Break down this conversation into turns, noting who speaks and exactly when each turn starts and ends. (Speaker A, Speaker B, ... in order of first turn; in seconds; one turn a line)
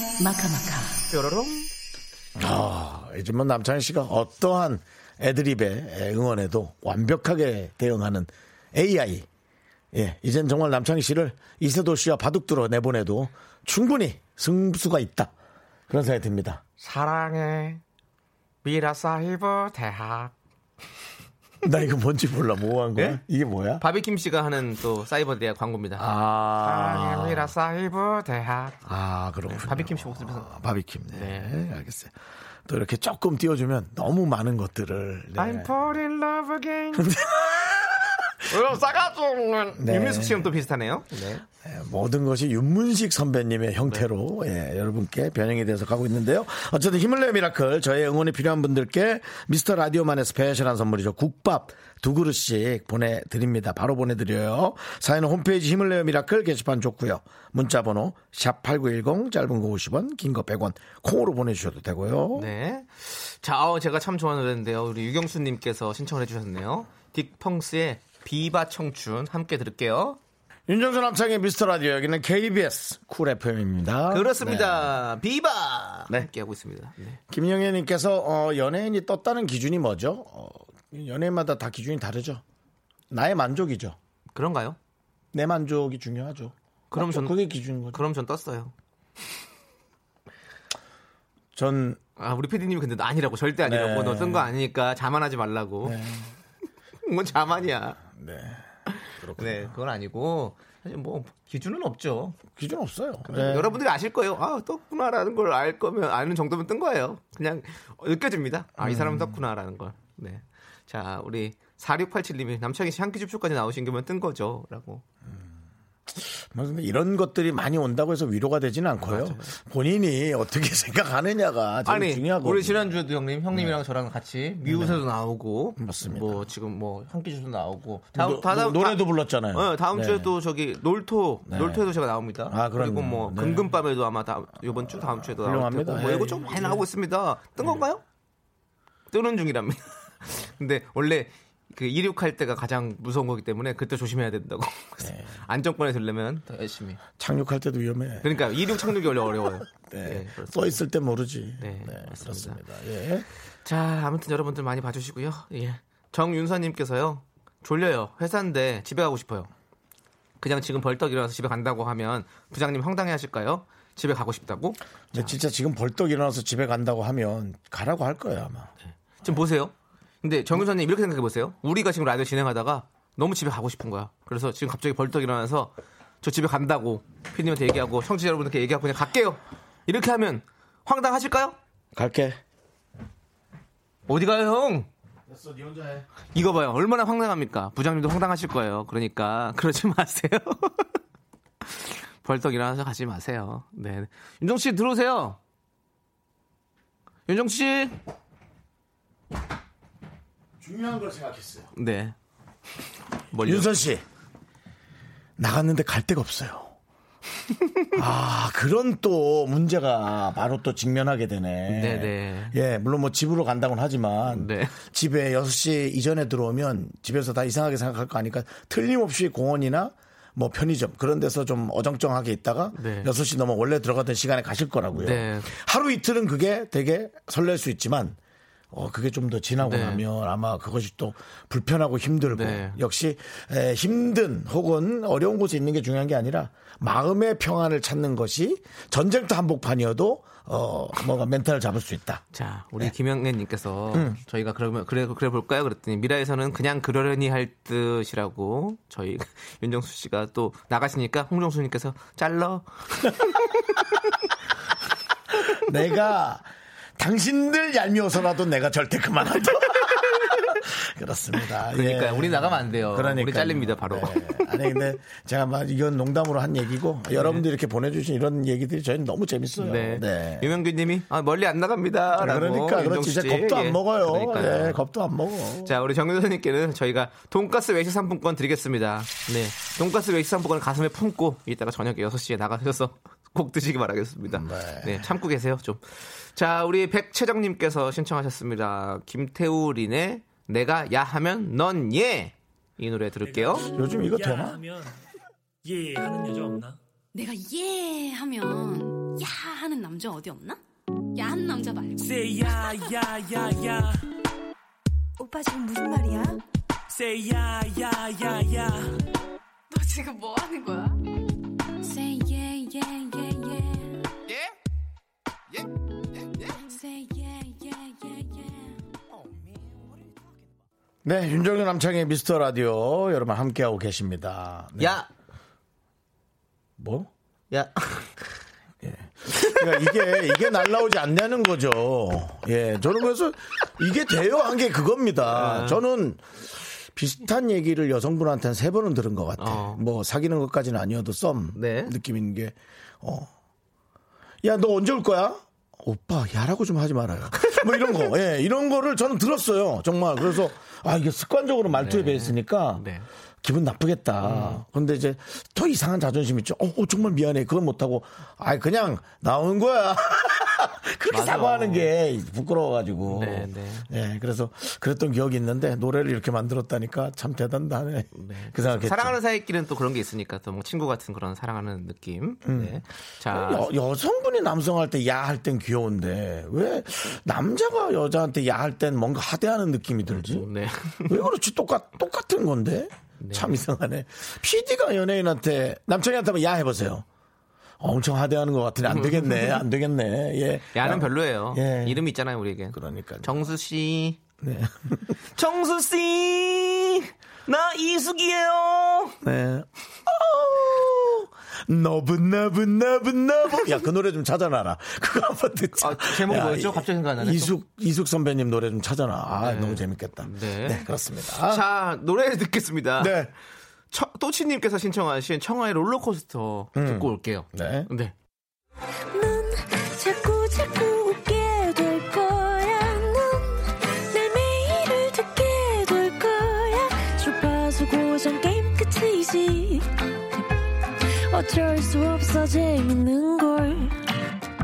Speaker A: 1.1-1.7
Speaker B: 2.4-9.3
Speaker B: 9.9-15.3
Speaker B: 15.9-16.6
Speaker A: 16.8-17.8
Speaker A: 18.6-20.3
Speaker B: 21.6-23.8
Speaker A: 23.0-23.2
Speaker A: 23.8-26.1
Speaker B: 26.0-27.5
Speaker A: 26.6-28.8
Speaker B: 28.9-32.1
Speaker A: 29.5-30.5
Speaker A: 31.1-31.6
Speaker B: 32.7-35.7
Speaker A: 35.4-37.7
Speaker B: 37.0-38.4
Speaker A: 38.4-41.5
Speaker B: 39.8-40.5
Speaker B: 41.6-62.5
Speaker A: 62.4-70.2
Speaker B: 70.7-75.0
Speaker A: 74.1-77.2
Speaker B: 77.3-82.4
Speaker B: 83.1-84.0
Speaker A: 84.3-84.8
Speaker B: 85.3-88.0
Speaker A: 86.9-87.3
Speaker A: 87.9-88.7
Speaker B: 91.5-92.0
Speaker A: 92.2-96.0
Speaker B: 93.6-94.5
Speaker B: 95.8-96.3
Speaker A: 97.0-98.0
Speaker B: 98.1-98.7
Speaker A: 98.9-102.4
Speaker B: 99.2-99.7
Speaker B: 102.5-103.8
Speaker A: 103.3-115.0
Speaker B: 108.8-109.4
Speaker B: 116.1-122.9
Speaker A: 119.0-119.5
Speaker A: 121.9-138.0
Speaker B: 124.7-125.0
Speaker B: 125.8-126.4
Speaker B: 128.2-130.3
Speaker B: 131.5-131.8
Speaker B: 132.5-133.8
Speaker B: 134.8-136.8
Speaker A: 139.1-147.0
Speaker B: 145.0-145.3
Speaker B: 147.2-148.9
Speaker A: 148.2-150.8
Speaker B: 149.9-153.3
Speaker A: 151.6-152.6
Speaker A: 153.6-159.5
Speaker A: 160.4-165.3
Speaker B: 165.1-168.7
Speaker A: 169.2-181.6
Speaker B: 181.9-182.4
Speaker A: 184.1-184.9
Speaker B: 185.3-186.1
Speaker A: 186.3-190.9
Speaker A: 191.6-195.4
Speaker A: 197.3-198.0
Speaker B: 200.6-201.7
Speaker A: 201.8-202.2
Speaker A: 203.3-203.7
Speaker B: 203.4-204.0
Speaker B: 205.4-206.8
Speaker B: 207.9-228.2
Speaker A: 211.7-212.6
Speaker A: 214.3-214.8
Speaker A: 222.8-223.1
Speaker A: 224.9-225.5
Speaker B: 228.7-242.2
Speaker A: 229.6-230.0
Speaker A: 232.3-232.8
Speaker A: 242.3-253.3
Speaker B: 243.9-244.2
Speaker B: 255.5-270.5
Speaker A: 261.7-264.4
Speaker A: 267.1-267.4
Speaker A: 269.6-274.8
Speaker B: 272.2-275.7
Speaker A: 275.6-293.7
Speaker B: 284.3-285.1
Speaker C: 293.3-295.0
Speaker B: 293.7-294.6
Speaker C: 295.6-296.8
Speaker D: 297.1-300.6
Speaker D: 301.1-302.7
Speaker C: 302.0-304.0
Speaker C: 306.9-308.9
Speaker D: 309.7-311.0
Speaker D: 311.8-314.1
Speaker D: 316.5-318.8
Speaker B: 321.0-325.0
Speaker A: 324.8-325.1
Speaker B: 326.8-327.1
Speaker A: 327.5-328.4
Speaker B: 328.8-343.3
Speaker A: 329.3-330.6
Speaker A: 335.3-335.8
Speaker A: 339.4-339.8
Speaker A: 341.5-341.9
Speaker B: 344.4-352.8
Speaker A: 347.4-348.1
Speaker A: 351.7-353.1
Speaker B: 353.4-369.2
Speaker A: 354.2-354.6
Speaker A: 361.1-361.9
Speaker A: 363.1-363.9
Speaker A: 368.1-373.7
Speaker B: 372.4-380.5
Speaker A: 380.1-381.3
Speaker B: 381.1-387.1
Speaker A: 383.2-383.6
Speaker B: 387.8-392.0
Speaker A: 388.9-389.6
Speaker A: 390.7-394.2
Speaker B: 392.7-393.3
Speaker B: 394.4-395.1
Speaker A: 395.4-399.2
Speaker B: 399.2-411.6
Speaker A: 405.8-407.5
Speaker A: 409.3-413.1
Speaker B: 413.0-413.3
Speaker A: 413.9-418.1
Speaker B: 416.8-417.9
Speaker E: 419.1-430.5
Speaker E: 431.0-434.0